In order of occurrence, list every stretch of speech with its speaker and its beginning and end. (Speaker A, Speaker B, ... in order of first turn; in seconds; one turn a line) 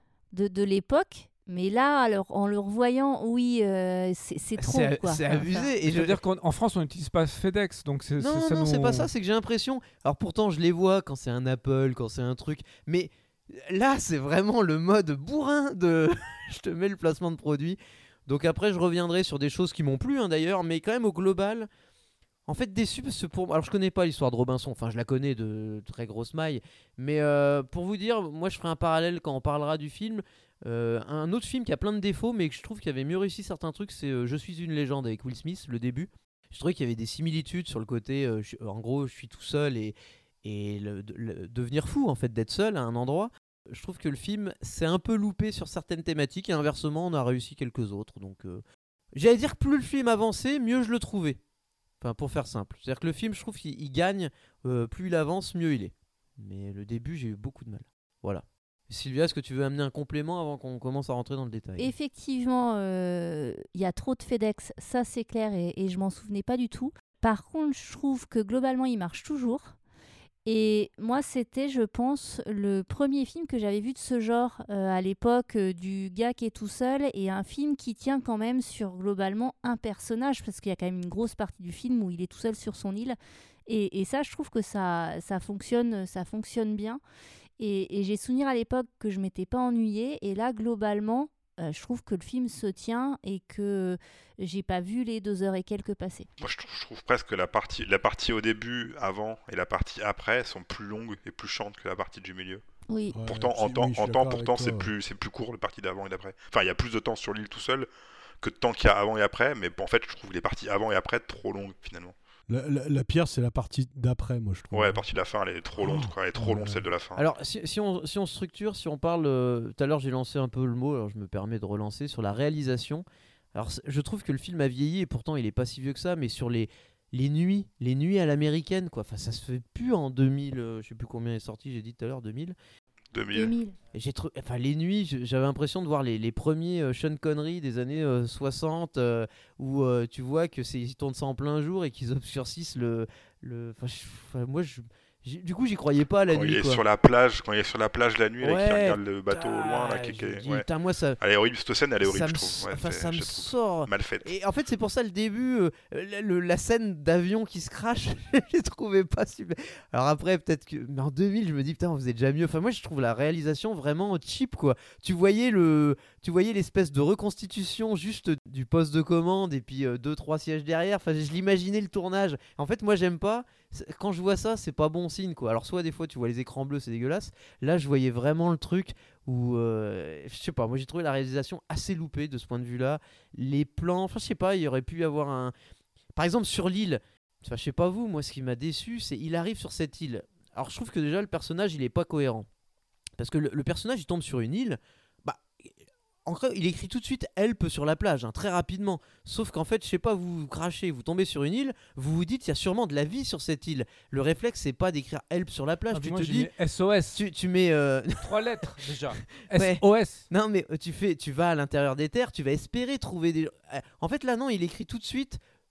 Speaker A: 0.3-5.7
Speaker B: 4.6-6.2
Speaker C: 5.9-9.1
Speaker B: 8.2-21.7
Speaker B: 22.5-48.6
Speaker B: 49.1-51.4
Speaker B: 52.0-61.9
Speaker A: 61.8-69.8
Speaker A: 70.4-87.0
Speaker A: 87.6-96.3
Speaker D: 96.4-102.6
Speaker A: 102.9-103.2
Speaker E: 103.1-104.9
Speaker D: 103.2-107.9
Speaker D: 108.4-112.1
Speaker E: 112.5-115.0
Speaker D: 114.7-117.2
Speaker E: 115.8-116.8
Speaker B: 117.2-132.6
Speaker D: 133.1-133.6
Speaker A: 133.3-133.8
Speaker B: 133.9-146.8
Speaker D: 146.3-150.7
Speaker B: 148.4-151.2
Speaker D: 151.2-154.3
Speaker B: 152.0-185.5
Speaker B: 186.2-192.5
Speaker B: 193.2-195.6
Speaker B: 196.2-206.5
Speaker C: 205.9-207.2
Speaker B: 207.1-208.8
Speaker C: 208.2-210.2
Speaker B: 209.3-215.4